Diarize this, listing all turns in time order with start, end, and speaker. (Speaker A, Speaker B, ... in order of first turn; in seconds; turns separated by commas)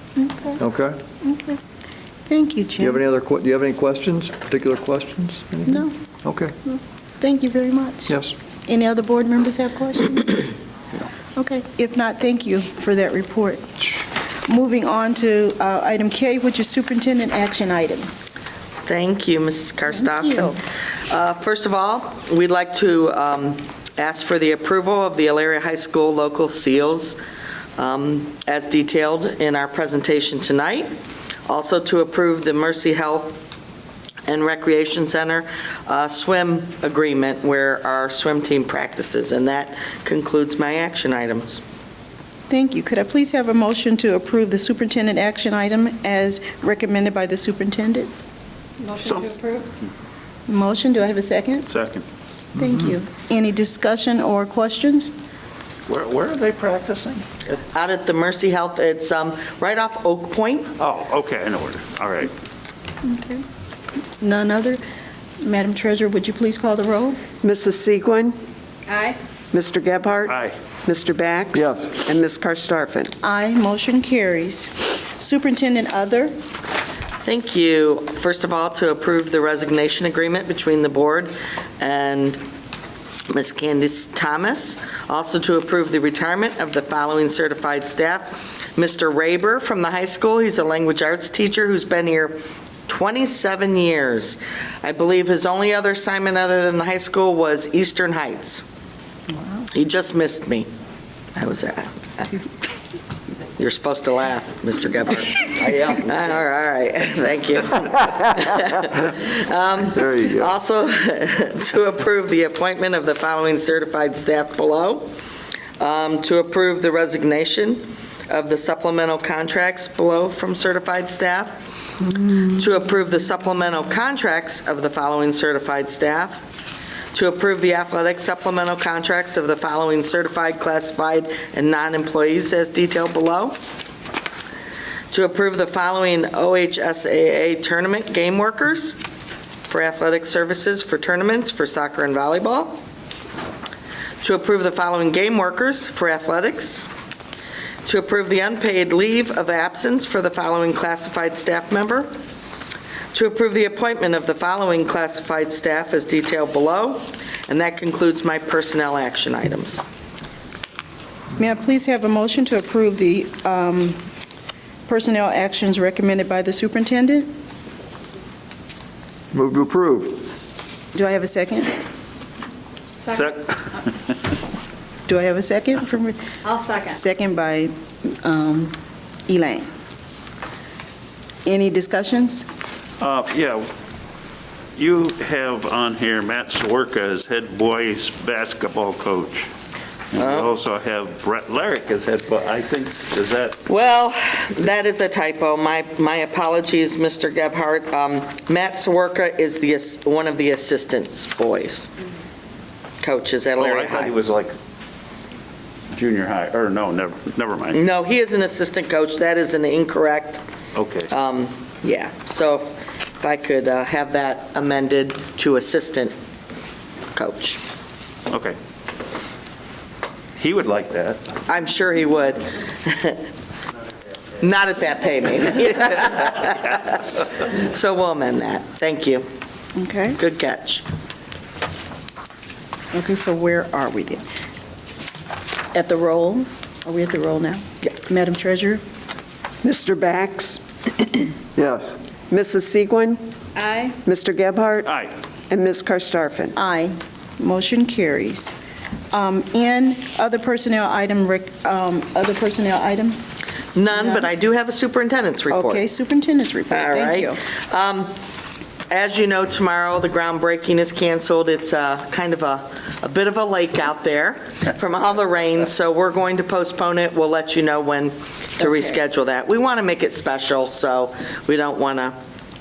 Speaker A: 0.2-0.6, Speaker B: 0.6-1.0, Speaker A: 1.2-1.6, Speaker A: 2.3-3.0, Speaker B: 2.8-6.5, Speaker A: 5.7-5.9, Speaker A: 6.6-10.5, Speaker B: 8.1-8.3, Speaker A: 11.3-18.2, Speaker C: 18.9-20.6, Speaker A: 19.9-20.6, Speaker C: 21.1-27.2, Speaker C: 27.8-30.9, Speaker C: 31.5-33.4, Speaker C: 34.3-41.6, Speaker A: 42.5-48.1, Speaker D: 48.8-49.7, Speaker E: 49.0-49.4, Speaker A: 50.5-51.7, Speaker E: 51.7-52.0, Speaker A: 52.5-55.1, Speaker E: 55.9-57.2, Speaker C: 57.7-60.7, Speaker E: 60.8-62.3, Speaker A: 63.0-63.4, Speaker A: 64.2-64.8, Speaker A: 65.4-67.2, Speaker F: 67.4-68.4, Speaker D: 68.9-69.2, Speaker F: 69.5-73.1, Speaker E: 70.3-70.5, Speaker B: 71.5-72.0, Speaker A: 73.2-76.3, Speaker C: 77.2-82.4, Speaker C: 83.3-98.6, Speaker C: 99.7-100.7, Speaker C: 101.4-102.3, Speaker C: 103.6-115.1, Speaker E: 105.6-106.0, Speaker B: 110.0-110.5, Speaker C: 115.8-126.4, Speaker C: 127.1-133.6, Speaker C: 135.1-139.0, Speaker C: 139.7-142.8, Speaker C: 144.2-146.9, Speaker C: 147.8-152.1, Speaker C: 153.1-159.8, Speaker A: 161.4-164.0, Speaker A: 164.9-167.3, Speaker B: 169.3-170.3, Speaker A: 170.9-171.8, Speaker E: 173.1-173.6, Speaker A: 175.1-176.2, Speaker D: 176.4-176.9, Speaker A: 176.8-178.8, Speaker A: 179.3-179.7, Speaker A: 181.4-182.4, Speaker E: 183.0-183.7, Speaker E: 184.8-189.5, Speaker E: 190.1-193.6, Speaker C: 190.2-190.5, Speaker C: 193.7-201.9, Speaker C: 203.0-204.1, Speaker E: 203.6-204.5, Speaker E: 205.9-207.8, Speaker C: 207.7-210.4, Speaker E: 210.7-211.1, Speaker C: 211.1-216.1, Speaker C: 217.1-217.6, Speaker E: 218.3-218.6, Speaker E: 220.4-221.2, Speaker C: 221.5-223.2, Speaker C: 224.4-229.2, Speaker A: 229.8-230.2, Speaker C: 230.2-230.8, Speaker A: 232.9-234.2, Speaker A: 235.7-238.8, Speaker F: 239.6-241.2, Speaker B: 241.6-242.0, Speaker F: 242.3-243.2, Speaker D: 243.6-243.9, Speaker F: 244.0-244.9, Speaker E: 244.8-245.1, Speaker F: 245.5-246.5, Speaker A: 246.6-248.5, Speaker A: 249.1-253.3, Speaker C: 253.7-255.8, Speaker A: 253.9-254.2, Speaker A: 255.5-257.4, Speaker C: 256.7-258.1, Speaker C: 258.9-272.2